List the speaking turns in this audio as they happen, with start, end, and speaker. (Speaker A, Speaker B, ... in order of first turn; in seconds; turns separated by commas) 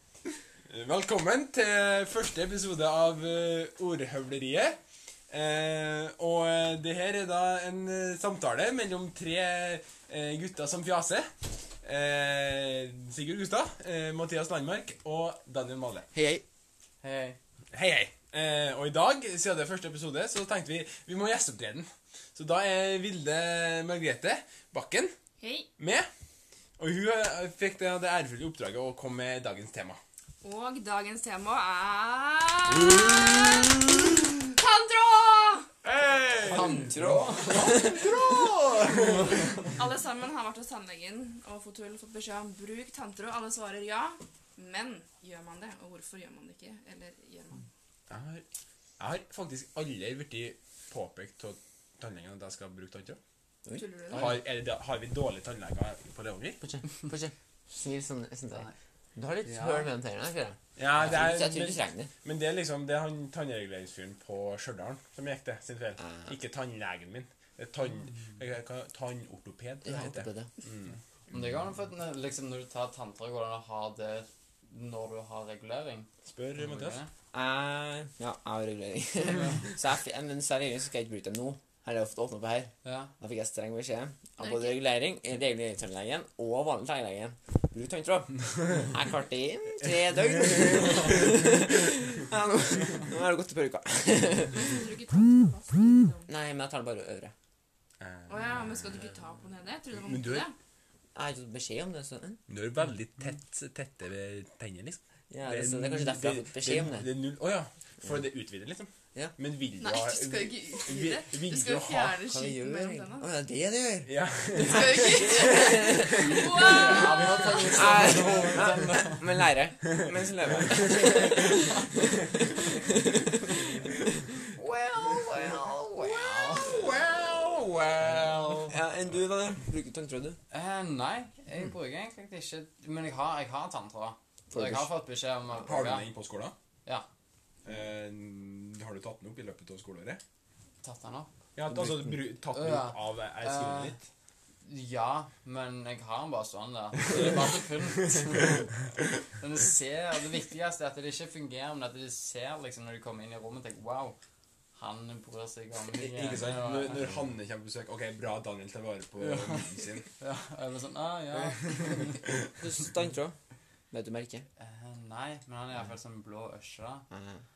Speaker A: 0.7-4.8, Speaker A: 5.3-11.3, Speaker A: 11.8-16.1, Speaker B: 16.1-16.4, Speaker C: 17.0-17.4, Speaker A: 17.7-25.1, Speaker D: 25.4-25.7, Speaker A: 25.8-26.1, Speaker A: 26.8-30.0, Speaker D: 30.4-33.9, Speaker A: 32.7-33.9, Speaker D: 34.6-35.7, Speaker A: 35.8-39.7, Speaker C: 36.5-37.8, Speaker B: 37.5-38.1, Speaker D: 39.8-47.7, Speaker A: 48.1-48.4, Speaker A: 49.0-53.2, Speaker B: 53.6-54.4, Speaker D: 53.8-54.2, Speaker A: 54.1-56.6, Speaker B: 56.6-62.1, Speaker C: 59.4-59.9, Speaker A: 60.8-70.9, Speaker B: 66.0-66.3, Speaker B: 69.8-70.5, Speaker C: 71.3-77.1, Speaker A: 76.2-77.0, Speaker B: 77.3-94.8, Speaker C: 79.2-79.7, Speaker C: 82.8-83.1, Speaker D: 84.4-84.7, Speaker D: 94.6-96.3, Speaker B: 96.3-97.3, Speaker A: 98.0-99.1, Speaker D: 98.3-100.5, Speaker A: 99.9-100.5, Speaker B: 101.1-102.4, Speaker A: 102.5-112.3, Speaker B: 105.3-107.1, Speaker D: 109.8-113.2, Speaker B: 112.3-127.5, Speaker A: 114.0-117.3, Speaker D: 114.6-118.1, Speaker C: 116.5-119.3, Speaker C: 125.9-126.8, Speaker A: 126.6-128.3, Speaker C: 128.0-128.7, Speaker B: 128.0-130.4, Speaker C: 130.5-136.1, Speaker B: 134.5-134.9, Speaker A: 135.5-136.5, Speaker A: 137.6-140.2, Speaker C: 140.8-141.3, Speaker A: 141.6-144.0, Speaker B: 141.7-142.2, Speaker C: 142.5-143.9, Speaker C: 144.6-154.2, Speaker C: 154.7-157.2, Speaker A: 156.0-160.1, Speaker C: 159.2-162.2, Speaker B: 162.6-163.3, Speaker B: 163.9-164.5, Speaker C: 164.6-167.1, Speaker B: 167.1-167.4